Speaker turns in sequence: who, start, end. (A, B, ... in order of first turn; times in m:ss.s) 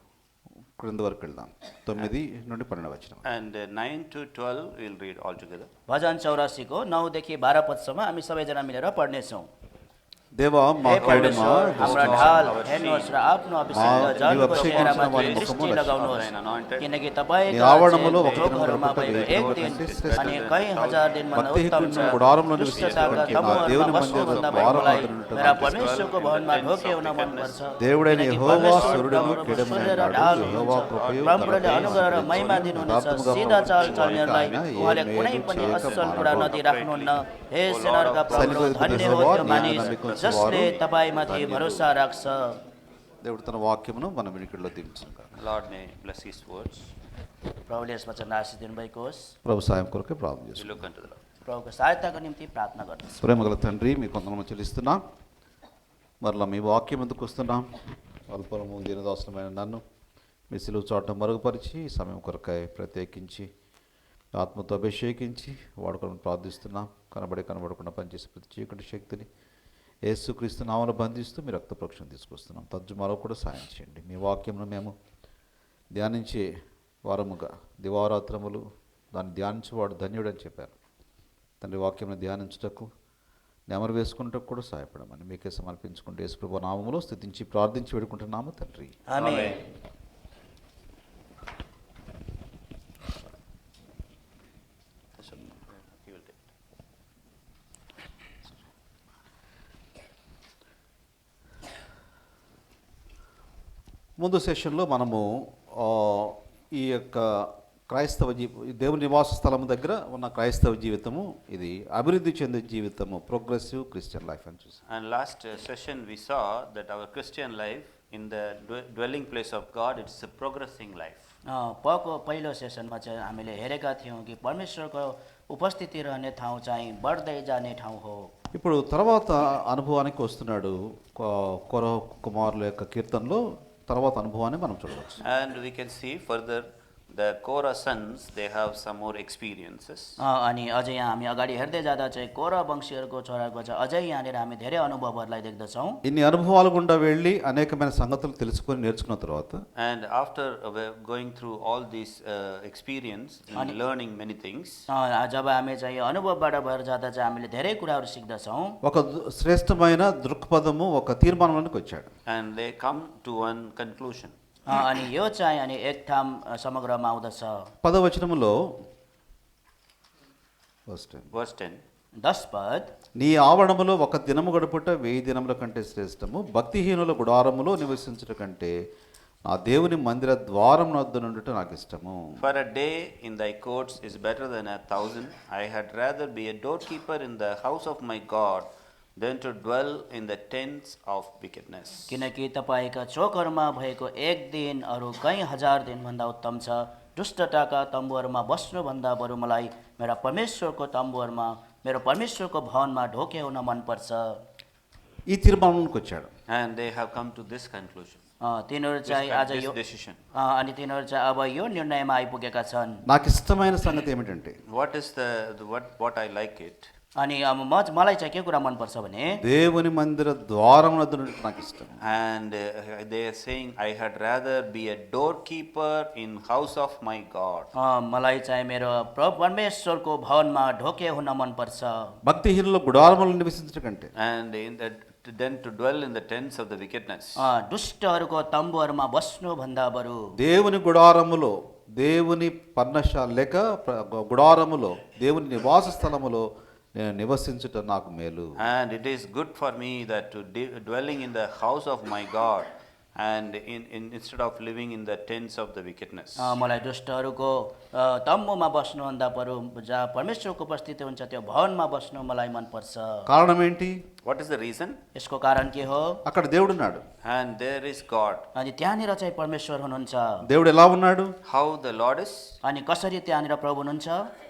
0:00.8-0:03.2 A
0:03.2-0:05.7 B
0:05.9-0:09.5 C
0:10.4-0:12.5 A
0:10.8-0:42.6 C
0:10.9-0:13.2 B
0:13.7-0:16.0 A
0:13.7-0:16.9 B
0:17.5-0:20.4 A
0:18.1-0:27.6 B
0:21.3-0:25.9 A
0:27.8-0:36.6 A
0:28.2-0:40.7 B
0:38.3-0:41.9 A
0:43.2-0:45.3 A
0:45.4-0:46.9 B
0:47.7-0:49.4 C
0:49.4-0:50.8 A
0:50.6-0:51.2 B
0:51.4-0:53.2 C
0:53.2-0:55.0 A
0:56.2-0:57.7 A
0:58.3-0:59.8 A
1:00.5-1:03.5 A
1:04.4-1:09.3 A
1:10.0-1:15.0 A
1:16.0-1:16.4 A
1:17.0-1:20.7 A
1:21.6-1:22.9 A
1:23.7-1:29.1 A
1:29.1-1:29.6 C
1:29.2-1:29.6 B
1:35.2-1:36.4 B
1:44.2-1:54.8 A
1:54.9-2:01.3 B
2:01.5-2:08.3 C
2:08.5-2:15.2 A
2:15.2-2:20.2 B
2:20.2-2:26.0 C
2:26.0-2:29.6 A
2:29.8-2:34.8 B
2:34.9-2:38.8 C
2:38.8-2:42.1 A
2:42.3-2:44.4 B
2:44.7-2:47.7 C
2:47.8-2:48.6 A
2:50.9-2:51.3 A
2:51.3-2:51.8 B
2:52.2-2:52.9 C
2:53.2-2:58.7 A
2:59.5-3:02.4 A
3:02.4-3:12.2 B
3:12.1-3:24.4 C
3:25.3-3:26.3 A
3:26.5-3:28.2 B
3:28.4-3:29.8 C
3:29.1-3:30.2 B
3:30.3-3:33.0 C
3:33.1-3:34.6 A
3:34.7-3:36.9 B
3:37.2-3:39.4 C
3:39.4-3:42.0 A
3:42.0-3:47.7 B
3:47.8-3:52.2 C
3:52.2-3:54.1 A
3:54.2-3:57.4 B
3:57.4-4:00.3 C
4:00.4-4:06.4 A
4:07.0-4:08.6 A
4:08.6-4:16.5 B
4:16.4-4:23.3 C
4:23.3-4:24.0 A
4:24.2-4:25.0 B
4:25.2-4:26.2 C
4:26.2-4:27.0 A
4:27.2-4:28.5 B
4:28.6-4:30.4 C
4:30.5-4:31.4 A
4:31.4-4:32.6 B
4:32.6-4:34.3 C